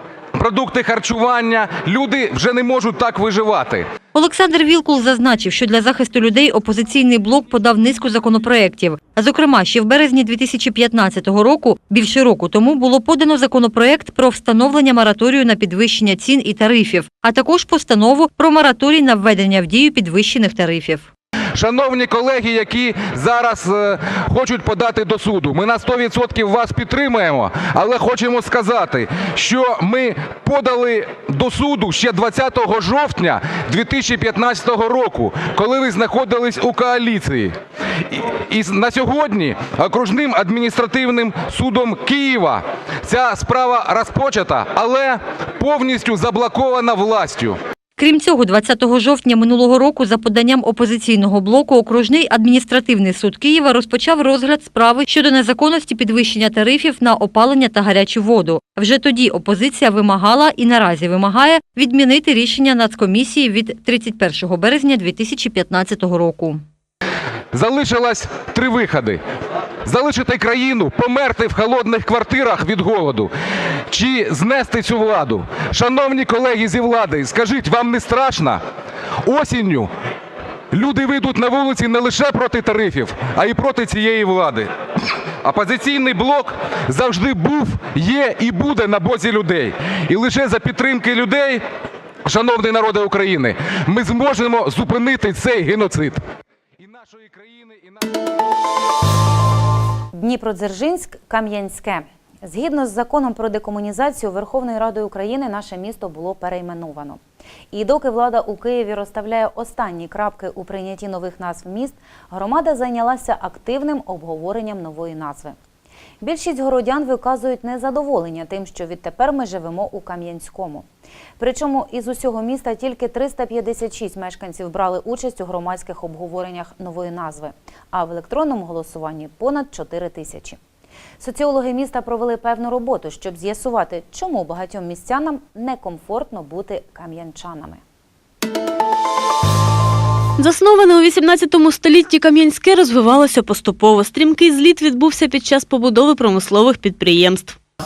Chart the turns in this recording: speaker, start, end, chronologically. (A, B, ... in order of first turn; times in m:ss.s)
0:00.3-0:03.9 A
0:04.1-0:21.1 B
0:21.5-0:37.5 A
0:38.1-0:47.6 A
0:48.0-1:06.6 B
1:07.5-1:09.2 A
1:09.8-1:13.3 A
1:13.9-1:18.6 A
1:19.2-1:19.9 A
1:20.7-1:24.7 A
1:25.4-1:31.6 A
1:32.2-1:36.2 A
1:36.8-1:38.0 A
1:40.1-1:47.2 C
1:47.7-1:55.6 C
1:56.2-2:00.9 C
2:01.4-2:10.6 C
2:11.2-2:17.8 C
2:20.4-2:27.6 D